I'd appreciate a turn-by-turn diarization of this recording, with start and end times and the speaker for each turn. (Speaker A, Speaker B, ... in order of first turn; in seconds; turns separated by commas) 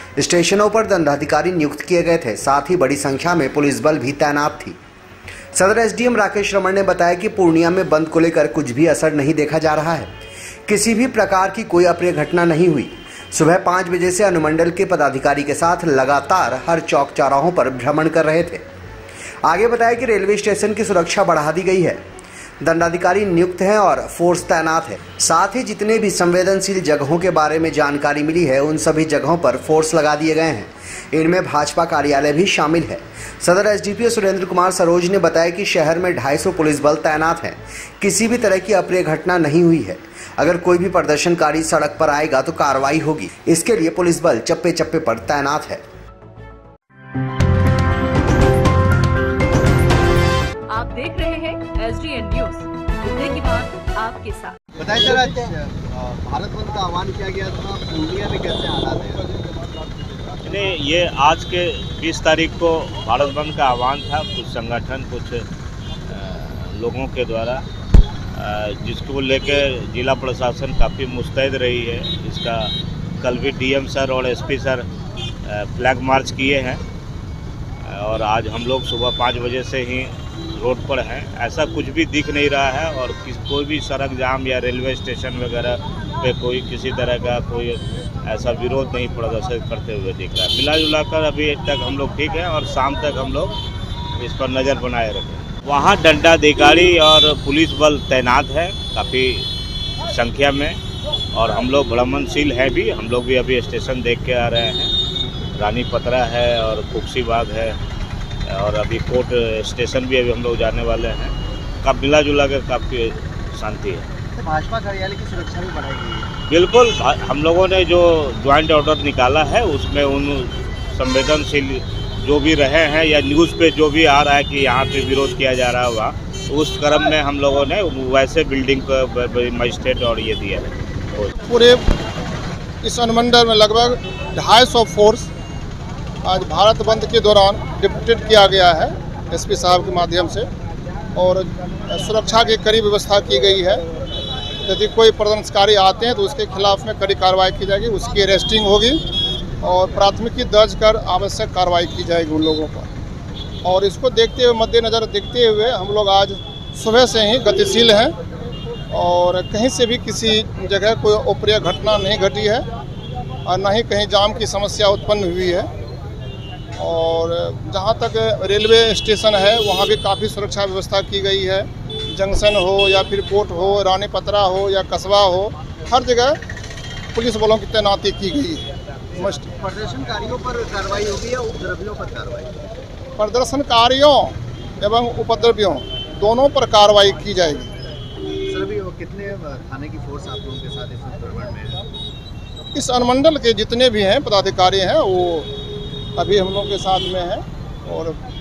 Speaker A: 0.2-4.7, Speaker A: 5.5-10.1, Speaker A: 10.7-18.6, Speaker A: 19.4-22.0, Speaker A: 22.6-45.8, Speaker B: 50.7-55.1, Speaker C: 54.8-59.3, Speaker D: 60.4-65.4, Speaker D: 66.1-67.6, Speaker D: 68.3-74.8, Speaker D: 75.4-76.8, Speaker D: 77.8-93.5, Speaker D: 94.1-99.5, Speaker D: 100.0-100.8, Speaker D: 101.3-104.9, Speaker D: 105.5-107.8, Speaker D: 108.5-114.0, Speaker C: 114.3-116.3, Speaker D: 116.5-131.3, Speaker E: 131.5-131.8, Speaker E: 132.8-135.3, Speaker E: 136.2-140.5, Speaker E: 141.1-143.8, Speaker E: 144.7-149.0, Speaker E: 149.6-152.9, Speaker E: 153.6-158.1, Speaker E: 158.9-162.6, Speaker E: 163.4-165.7, Speaker E: 166.8-176.4, Speaker E: 177.1-179.5, Speaker C: 179.3-182.6, Speaker E: 183.2-187.7, Speaker C: 188.5-191.8, Speaker E: 192.7-195.5, Speaker E: 196.2-198.2